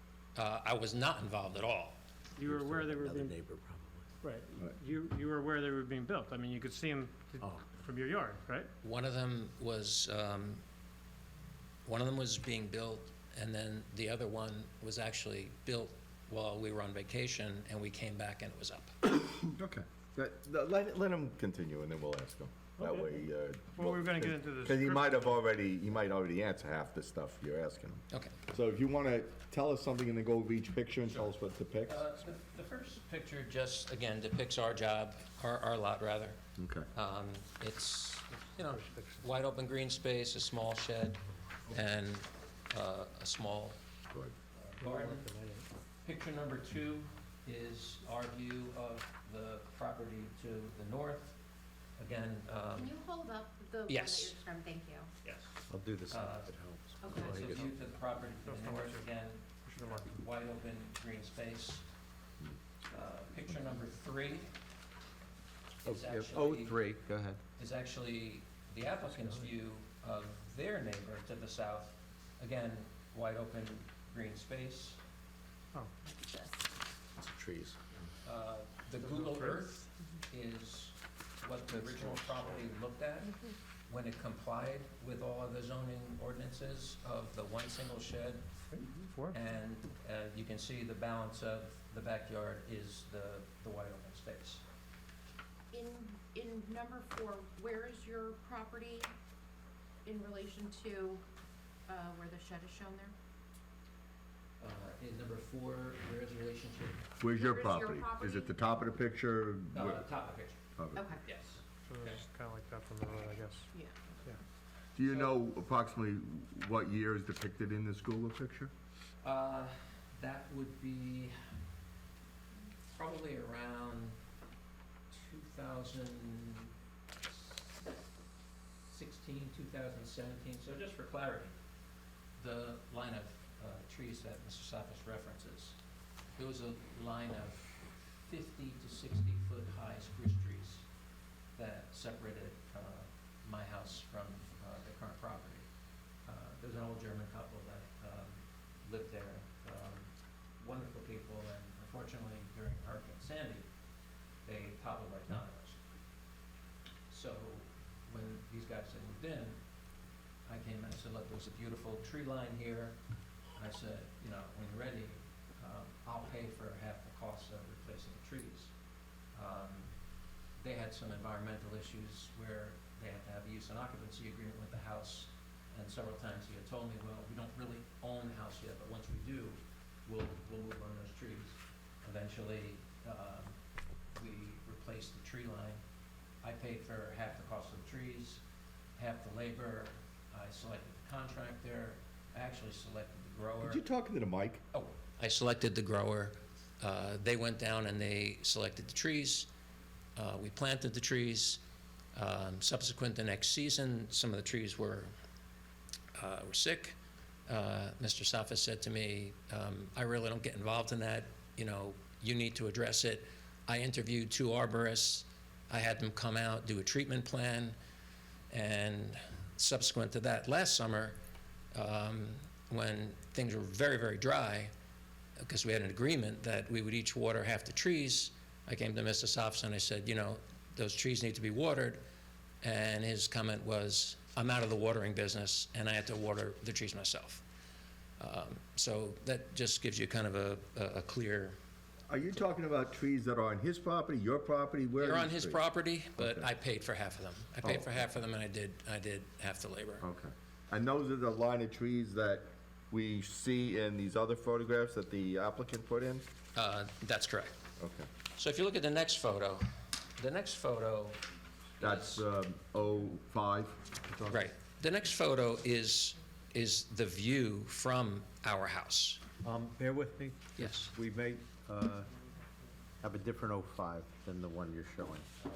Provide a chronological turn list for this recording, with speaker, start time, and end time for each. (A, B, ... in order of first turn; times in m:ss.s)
0:00.3-0:02.0 A
0:02.4-0:03.4 B
0:02.4-0:04.1 C
0:04.2-0:08.7 B
0:07.4-0:07.6 C
0:08.8-0:10.6 A
0:11.8-0:19.0 A
0:19.4-0:32.0 D
0:22.8-0:23.1 B
0:23.7-0:25.4 B
0:28.1-0:28.4 A
0:31.9-0:36.4 A
0:36.6-0:36.9 D
0:36.9-0:43.8 A
0:38.6-0:39.2 B
0:44.5-0:45.3 A
0:44.8-0:45.6 B
0:46.0-0:51.4 A
0:52.0-0:52.9 A
0:52.8-0:55.1 E
0:53.9-0:54.4 A
0:55.7-0:57.7 C
0:56.1-0:56.5 A
0:57.0-0:57.4 E
0:57.1-1:01.8 A
0:58.4-0:59.1 B
0:59.6-1:00.1 B
1:02.9-1:04.5 A
1:05.8-1:07.0 A
1:05.8-1:07.4 C
1:07.6-1:15.0 A
1:16.0-1:16.6 E
1:18.2-1:28.5 A
1:28.7-1:29.4 B
1:29.3-1:34.6 A
1:35.7-1:39.1 E
1:40.0-1:41.2 E
1:41.9-1:43.1 E
1:44.6-1:47.1 A
1:47.2-1:50.0 D
1:47.3-1:48.6 E
1:49.7-1:50.6 A
1:50.8-1:51.0 D
1:50.9-1:51.2 E
1:51.2-1:52.2 A
1:51.8-1:53.7 B
1:53.7-1:54.2 E
1:54.9-1:58.7 D
1:59.2-2:01.4 A
2:02.9-2:04.2 A
2:05.1-2:06.7 A
2:08.8-2:11.5 A
2:12.4-2:15.8 A
2:16.4-2:20.8 A
2:21.5-2:25.7 A
2:26.2-2:33.6 A
2:34.4-2:35.8 A
2:37.1-2:39.6 A
2:40.5-2:43.0 A
2:43.6-2:48.7 A
2:49.3-2:49.9 A
2:50.6-3:03.6 A
3:04.1-3:05.8 A
3:06.4-3:08.4 A
3:09.0-3:13.8 A
3:13.6-3:14.6 D
3:14.7-3:19.5 A
3:20.2-3:21.6 A
3:22.1-3:25.1 A
3:26.1-3:37.8 A
3:38.5-3:41.2 A
3:41.7-3:44.7 A
3:45.4-3:52.0 A
3:52.6-3:57.4 A
3:58.2-4:01.6 A
4:02.1-4:05.6 D
4:05.0-4:10.0 A
4:06.2-4:06.5 D
4:07.6-4:08.1 D
4:10.0-4:16.2 D
4:16.5-4:17.5 A
4:17.8-4:18.1 D
4:18.3-4:19.6 A
4:20.1-4:21.2 A
4:21.8-4:22.2 A
4:21.8-4:24.3 D
4:24.2-4:29.2 A
4:29.4-4:32.1 C
4:30.6-4:30.9 A
4:33.0-4:35.3 C